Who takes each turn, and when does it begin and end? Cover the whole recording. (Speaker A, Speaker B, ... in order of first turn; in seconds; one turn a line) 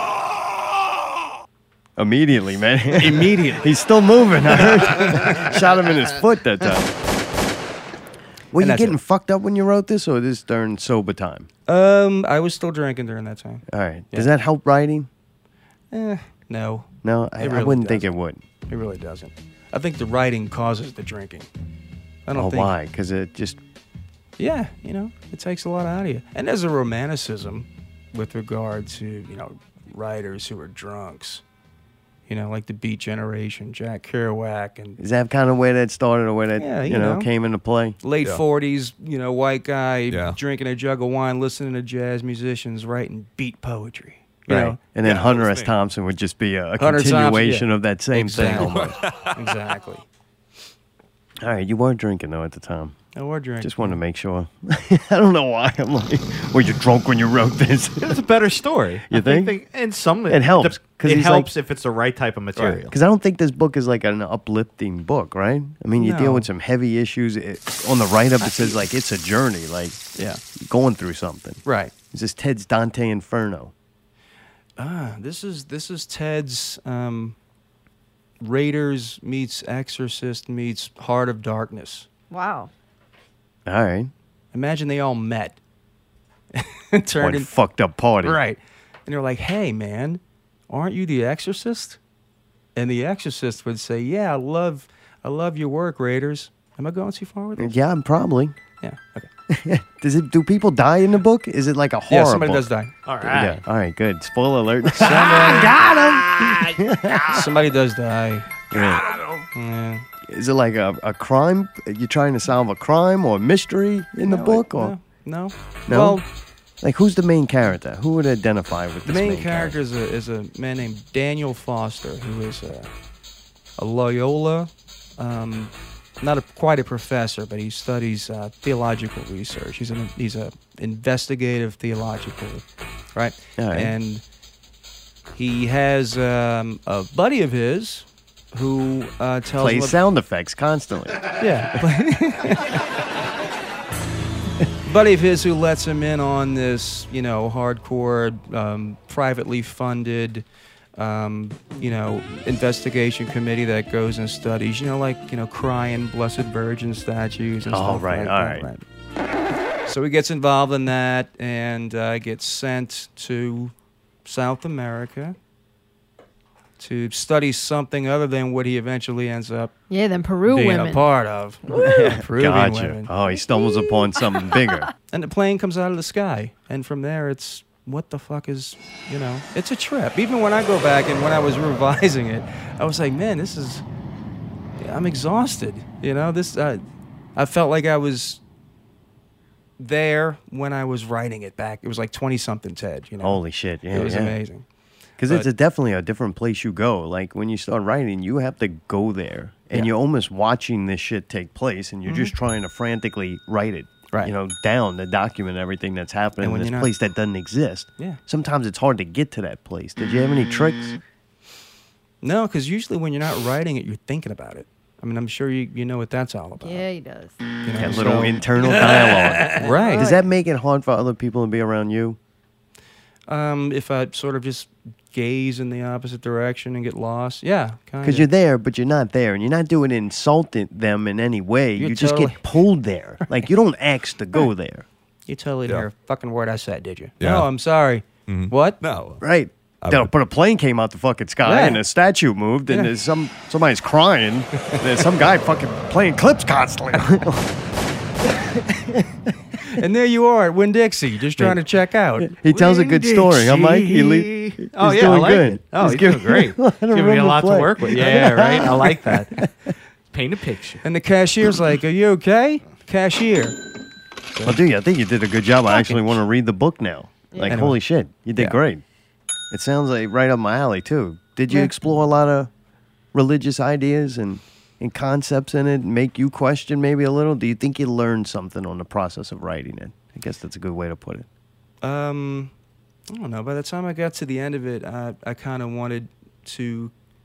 Speaker A: 2.0-6.9
Speaker B: 2.9-3.8
Speaker B: 5.0-5.5
Speaker A: 8.5-11.5
Speaker B: 8.6-8.9
Speaker B: 11.7-14.3
Speaker A: 13.7-15.1
Speaker B: 15.9-16.9
Speaker A: 17.0-18.4
Speaker B: 17.4-18.1
Speaker B: 18.7-21.5
Speaker B: 22.2-22.7
Speaker A: 22.3-23.6
Speaker B: 24.4-31.4
Speaker B: 32.3-35.0
Speaker A: 35.0-38.0
Speaker B: 36.6-37.3
Speaker B: 38.0-44.8
Speaker C: 40.1-40.4
Speaker A: 44.5-49.0
Speaker D: 45.0-45.7
Speaker B: 46.8-50.0
Speaker A: 51.4-53.0
Speaker B: 53.1-54.0
Speaker A: 53.6-58.2
Speaker D: 58.0-62.9
Speaker A: 59.1-59.5
Speaker A: 60.3-61.5
Speaker B: 62.5-62.8
Speaker A: 62.9-70.0
Speaker B: 66.0-66.5
Speaker B: 68.4-68.8
Speaker B: 70.2-70.4
Speaker A: 70.6-71.6
Speaker B: 71.7-71.9
Speaker A: 72.1-73.7
Speaker B: 74.8-77.3
Speaker B: 78.4-82.1
Speaker E: 82.3-82.7
Speaker A: 83.7-84.1
Speaker B: 84.5-85.6
Speaker B: 86.5-87.5
Speaker A: 87.2-88.4
Speaker B: 88.2-92.0
Speaker B: 92.8-97.7
Speaker A: 97.6-98.5
Speaker B: 98.8-99.3
Speaker A: 99.5-102.7
Speaker B: 102.1-103.0
Speaker D: 103.0-103.6
Speaker A: 103.2-107.5
Speaker B: 104.9-105.7
Speaker D: 105.0-105.6
Speaker D: 106.3-107.5
Speaker B: 107.3-108.5
Speaker A: 108.7-109.1
Speaker D: 108.7-109.4
Speaker B: 109.5-110.0
Speaker A: 110.3-114.9
Speaker B: 114.2-116.2
Speaker A: 115.9-116.2
Speaker A: 116.8-119.8
Speaker B: 119.0-122.9
Speaker B: 123.8-132.6
Speaker B: 133.1-134.2
Speaker A: 133.6-133.9
Speaker B: 135.3-140.0
Speaker A: 139.6-141.4
Speaker B: 141.4-142.8
Speaker B: 144.8-150.4
Speaker B: 150.9-158.8
Speaker A: 157.7-158.7
Speaker B: 159.8-163.7
Speaker B: 164.2-165.3
Speaker B: 166.8-169.7
Speaker E: 169.9-171.0
Speaker B: 170.5-173.1
Speaker A: 171.7-174.9
Speaker B: 175.1-183.8
Speaker B: 184.8-186.8
Speaker B: 187.3-188.4
Speaker B: 189.8-193.4
Speaker A: 193.2-194.4
Speaker B: 193.9-194.6
Speaker A: 195.2-211.0
Speaker B: 202.1-202.3
Speaker B: 206.4-206.9
Speaker B: 212.2-216.8
Speaker E: 216.6-217.4
Speaker B: 217.6-218.4
Speaker A: 217.8-222.2
Speaker D: 218.6-219.6
Speaker B: 219.6-220.1
Speaker E: 219.6-220.2
Speaker B: 223.3-228.2
Speaker A: 228.0-234.8
Speaker B: 231.8-232.4
Speaker B: 235.3-238.8
Speaker C: 237.2-237.5
Speaker C: 238.3-239.2
Speaker A: 239.2-247.6
Speaker C: 239.8-240.1
Speaker B: 241.4-241.8
Speaker A: 248.2-249.3
Speaker B: 249.7-252.4
Speaker A: 252.2-259.2
Speaker D: 252.5-259.3
Speaker B: 257.9-259.5
Speaker D: 260.1-260.8
Speaker B: 260.8-263.6
Speaker A: 264.4-268.8
Speaker B: 265.7-266.2
Speaker B: 267.5-267.8
Speaker A: 269.5-272.5
Speaker A: 273.1-281.2
Speaker B: 281.8-282.5
Speaker B: 283.1-286.9